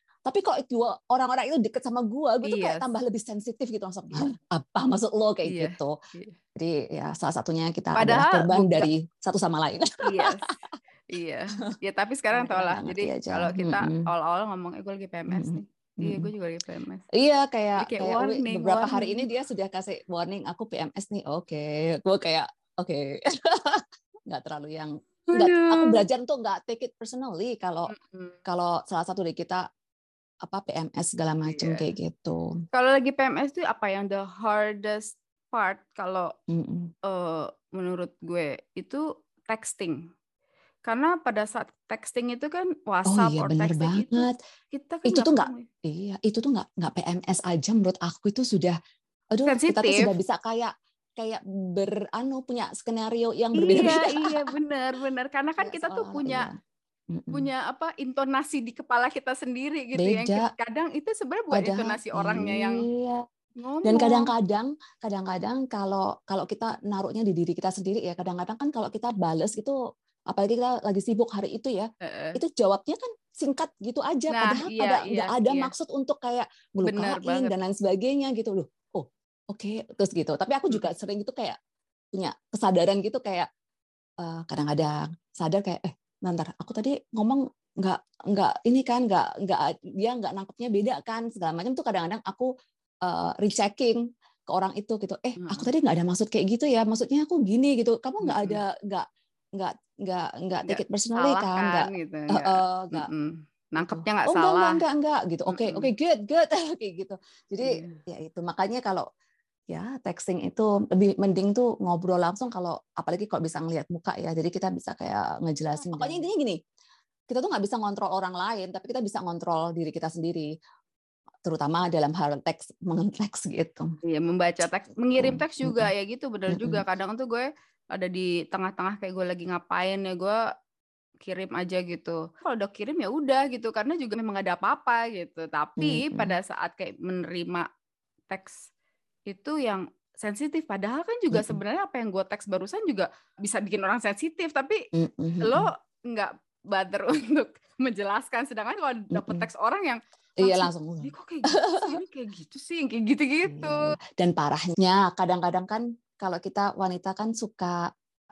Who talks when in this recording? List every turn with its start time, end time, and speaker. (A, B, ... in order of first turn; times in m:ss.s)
0:00.3-0:06.0 A
0:02.4-0:02.9 B
0:05.4-0:06.4 B
0:06.6-0:10.4 A
0:08.0-0:08.9 B
0:10.0-0:10.5 B
0:11.1-0:17.0 B
0:12.3-0:14.0 A
0:15.3-0:16.3 A
0:17.1-0:27.9 A
0:17.8-0:19.3 B
0:25.3-0:26.0 B
0:27.9-0:28.4 B
0:28.5-0:29.6 A
0:30.4-0:32.5 A
0:31.4-0:31.9 B
0:32.7-0:36.3 B
0:36.5-0:36.9 A
0:37.1-0:40.0 B
0:40.9-0:45.7 B
0:43.1-0:44.4 A
0:45.1-0:48.8 A
0:49.3-0:54.5 A
0:49.4-0:50.1 B
0:53.6-0:56.5 B
0:55.6-0:56.5 A
0:57.1-0:57.5 A
0:57.3-1:02.9 B
1:00.0-1:00.5 A
1:01.5-1:03.2 A
1:03.6-1:04.3 B
1:03.8-1:09.8 A
1:10.3-1:21.6 A
1:12.0-1:12.4 B
1:14.3-1:15.7 B
1:16.8-1:17.6 B
1:22.1-1:23.5 A
1:24.2-1:32.5 A
1:33.0-1:39.1 A
1:35.4-1:35.7 B
1:38.2-1:38.6 B
1:39.6-1:43.1 A
1:40.7-1:44.8 B
1:43.8-1:49.0 A
1:45.5-1:45.9 B
1:47.6-1:48.0 B
1:49.7-1:56.6 A
1:55.8-1:56.3 B
1:57.3-2:00.5 A
2:01.4-2:03.9 A
2:04.0-2:10.4 B
2:05.2-2:05.9 A
2:06.5-2:06.8 A
2:11.2-2:17.7 B
2:15.8-2:16.4 A
2:18.3-2:18.7 B
2:19.3-2:24.8 B
2:21.3-2:21.6 A
2:25.0-2:25.7 A
2:25.4-2:34.0 B
2:29.1-2:29.5 A
2:30.4-2:32.0 A
2:33.4-2:37.9 A